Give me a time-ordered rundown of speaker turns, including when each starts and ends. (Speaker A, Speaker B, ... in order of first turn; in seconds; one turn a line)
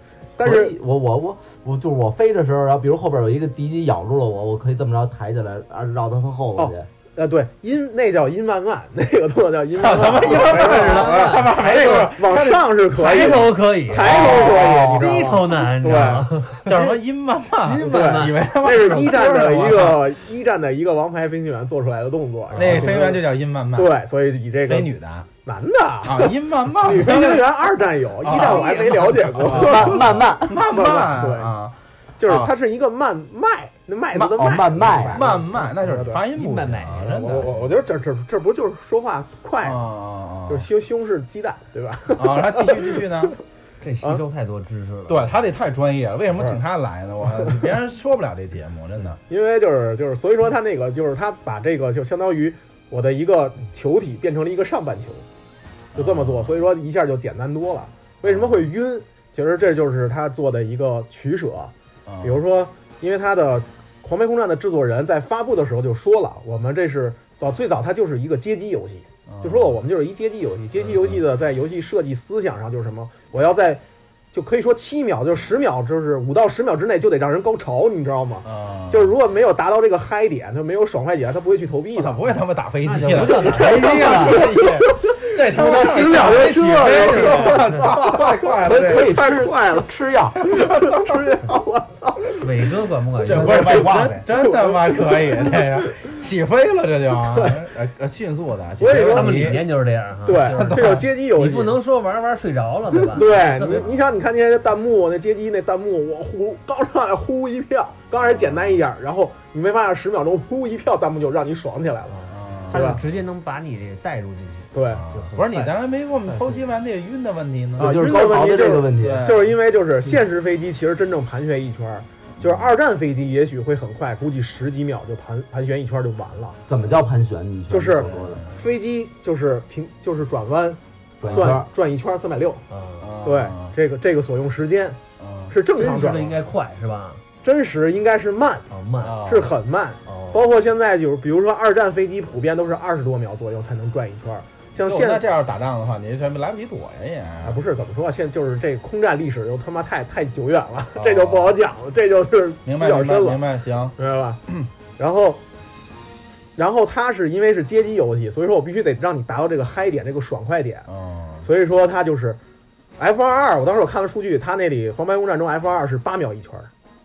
Speaker A: 0.4-0.8
Speaker B: 0.4-6.9
Speaker A: 6.6-16.9
Speaker C: 9.8-13.5
Speaker D: 10.3-12.1
Speaker D: 12.9-16.8
Speaker B: 13.9-15.3
Speaker C: 16.6-20.1
Speaker D: 17.6-19.2
Speaker A: 17.8-24.9
Speaker D: 22.5-23.0
Speaker C: 22.5-24.0
Speaker C: 24.7-25.3
Speaker A: 25.4-30.1
Speaker C: 26.0-27.5
Speaker C: 28.2-32.5
Speaker D: 28.2-29.6
Speaker B: 29.5-30.6
Speaker A: 30.6-31.5
Speaker A: 32.2-36.2
Speaker B: 34.2-35.3
Speaker C: 35.0-37.8
Speaker D: 36.3-37.1
Speaker A: 37.0-39.9
Speaker C: 39.6-40.6
Speaker A: 40.5-43.0
Speaker C: 42.1-43.3
Speaker D: 43.8-45.4
Speaker C: 45.1-49.2
Speaker A: 49.3-55.2
Speaker C: 55.9-56.7
Speaker A: 55.9-82.2
Speaker C: 58.2-58.7
Speaker C: 62.0-62.4
Speaker C: 69.3-69.8
Speaker C: 70.8-71.2
Speaker C: 78.4-79.1
Speaker C: 81.9-89.2
Speaker D: 82.8-84.7
Speaker A: 83.5-89.9
Speaker D: 85.5-87.8
Speaker B: 88.6-90.5
Speaker C: 90.4-91.4
Speaker A: 90.4-92.5
Speaker D: 92.4-94.2
Speaker C: 93.2-99.6
Speaker B: 93.3-94.2
Speaker A: 93.4-96.0
Speaker A: 98.7-99.7
Speaker D: 98.9-103.9
Speaker A: 100.2-101.8
Speaker C: 100.5-101.1
Speaker A: 103.0-112.2
Speaker C: 108.1-108.8
Speaker D: 112.1-116.7
Speaker C: 112.3-113.1
Speaker A: 112.7-113.0
Speaker A: 114.7-115.1
Speaker C: 114.9-117.9
Speaker B: 117.8-119.3
Speaker A: 117.8-126.6
Speaker C: 118.9-119.5
Speaker C: 122.4-122.7
Speaker B: 126.7-128.4
Speaker C: 126.7-127.0
Speaker A: 127.7-132.6
Speaker C: 128.0-128.6
Speaker B: 131.2-131.7
Speaker D: 132.7-133.1
Speaker C: 133.0-133.7
Speaker A: 133.2-136.4
Speaker C: 135.2-135.5
Speaker D: 135.7-137.2
Speaker A: 137.4-138.7
Speaker D: 138.7-139.3
Speaker C: 139.0-139.5
Speaker A: 139.2-145.2
Speaker D: 140.1-140.4
Speaker C: 144.8-147.6
Speaker A: 147.4-153.4
Speaker C: 150.9-151.6
Speaker C: 152.6-153.9
Speaker A: 154.0-154.4
Speaker A: 155.0-155.4
Speaker A: 156.6-160.8
Speaker C: 160.9-161.4
Speaker A: 161.4-162.4
Speaker A: 163.0-166.7